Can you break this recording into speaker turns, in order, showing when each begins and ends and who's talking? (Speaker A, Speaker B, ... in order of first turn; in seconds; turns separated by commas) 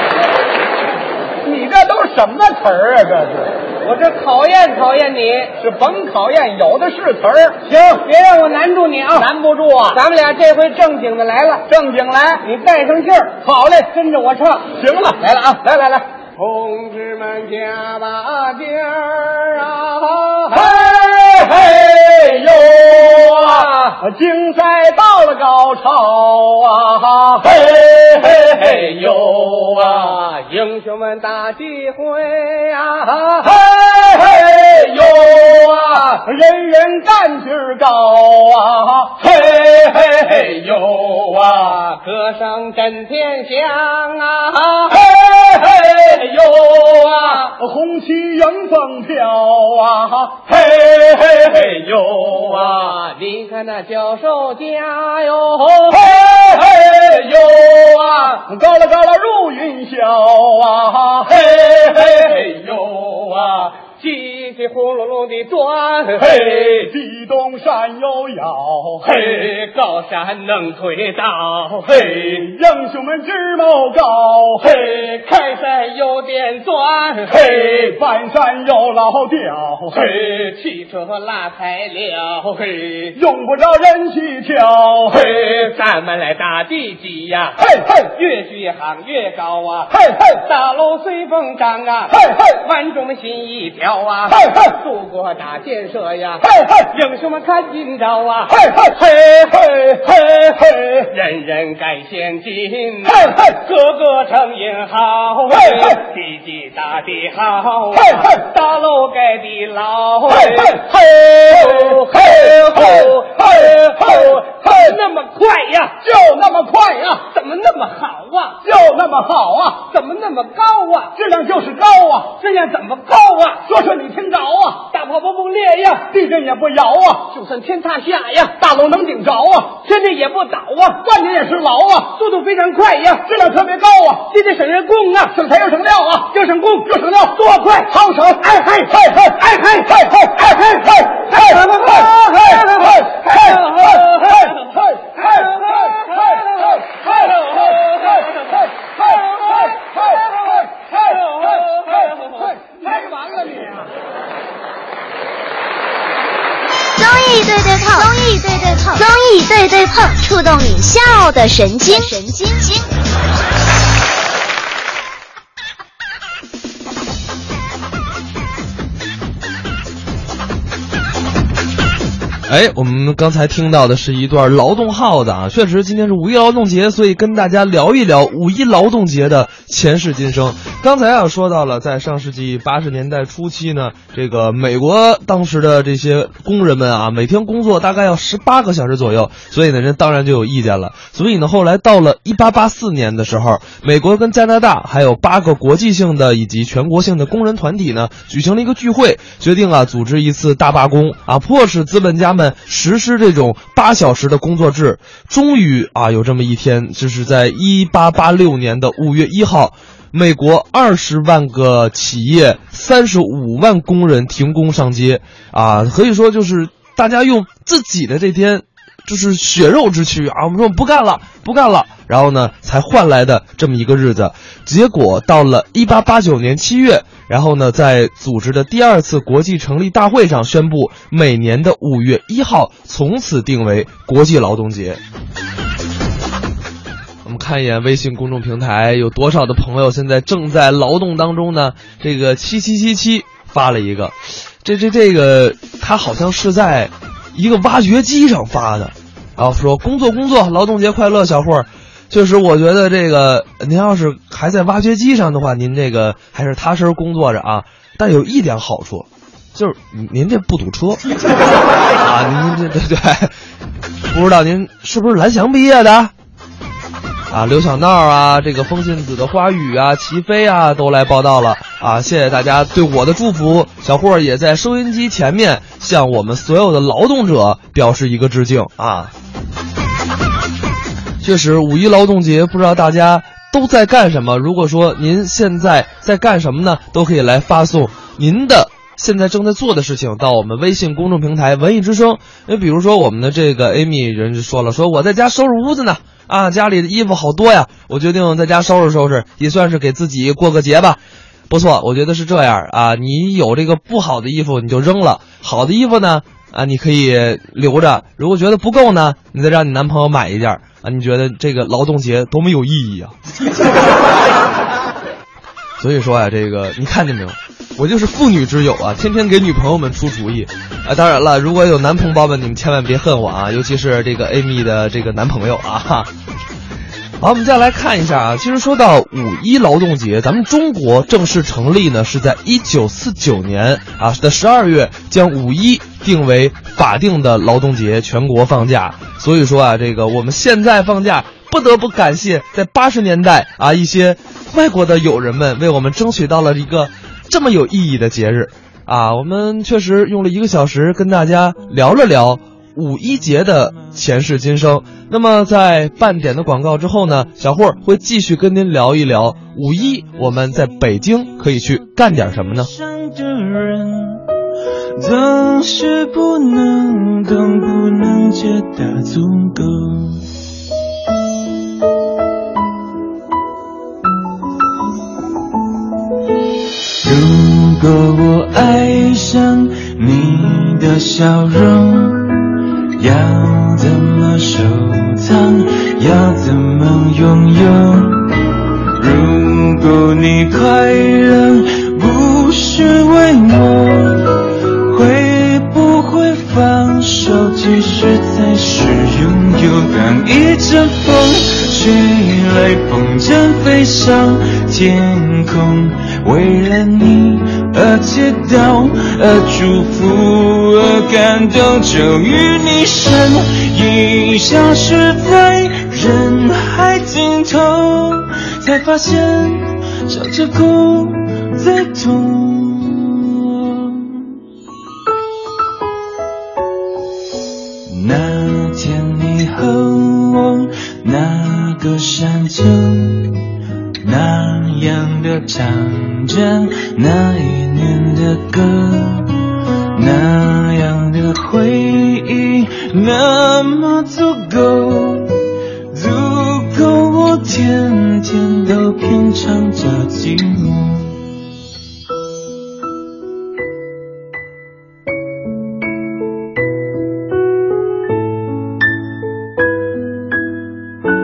Speaker A: 1.4-3.5, Speaker B: 3.8-5.5, Speaker A: 5.6-7.6, Speaker B: 7.7-9.3, Speaker A: 9.1-10.0, Speaker B: 9.9-11.7, Speaker A: 11.7-12.4, Speaker B: 12.4-20.8, Speaker A: 13.4-13.9, Speaker A: 14.7-15.2, Speaker A: 20.5-30.1, Speaker B: 23.3-24.0, Speaker B: 28.4-29.2, Speaker B: 29.8-33.6, Speaker A: 33.4-35.6, Speaker B: 35.0-36.2, Speaker A: 36.1-39.4, Speaker B: 39.3-45.1, Speaker A: 45.0-45.8, Speaker B: 45.7-47.6, Speaker A: 47.4-52.8, Speaker B: 52.5-58.4, Speaker A: 55.9-57.0, Speaker A: 58.5-62.4, Speaker B: 61.7-66.6, Speaker A: 66.2-69.3, Speaker B: 69.0-72.4, Speaker A: 71.8-74.7, Speaker B: 74.6-77.4, Speaker A: 77.3-80.1, Speaker B: 79.9-83.2, Speaker A: 83.1-85.3, Speaker B: 85.1-110.9, Speaker A: 87.6-88.0, Speaker A: 110.3-115.0, Speaker B: 111.4-116.0, Speaker A: 116.0-117.2, Speaker B: 117.3-118.6, Speaker A: 118.6-119.8, Speaker B: 119.9-121.1, Speaker A: 121.1-122.4, Speaker B: 122.4-123.6, Speaker A: 123.6-124.9, Speaker B: 124.9-126.1, Speaker A: 126.0-127.3, Speaker B: 127.3-128.5, Speaker A: 128.5-129.8, Speaker B: 129.8-131.0, Speaker A: 131.0-132.2, Speaker B: 132.1-133.3, Speaker A: 133.2-134.3, Speaker B: 134.3-135.3, Speaker A: 135.3-148.2, Speaker B: 136.3-138.0, Speaker B: 139.4-139.9, Speaker B: 140.4-153.6, Speaker A: 148.8-150.2, Speaker A: 151.1-153.8, Speaker C: 157.0-162.8, Speaker D: 172.5-235.0, Speaker D: 237.2-261.1, Speaker D: 262.0-263.3, Speaker D: 264.1-266.1, Speaker D: 267.3-279.1, Speaker D: 281.2-313.1, Speaker D: 315.8-326.1, Speaker D: 327.2-362.7, Speaker E: 362.6-364.2, Speaker E: 364.9-370.3, Speaker E: 377.0-388.4, Speaker E: 389.0-424.4, Speaker E: 427.9-433.5, Speaker E: 434.0-451.2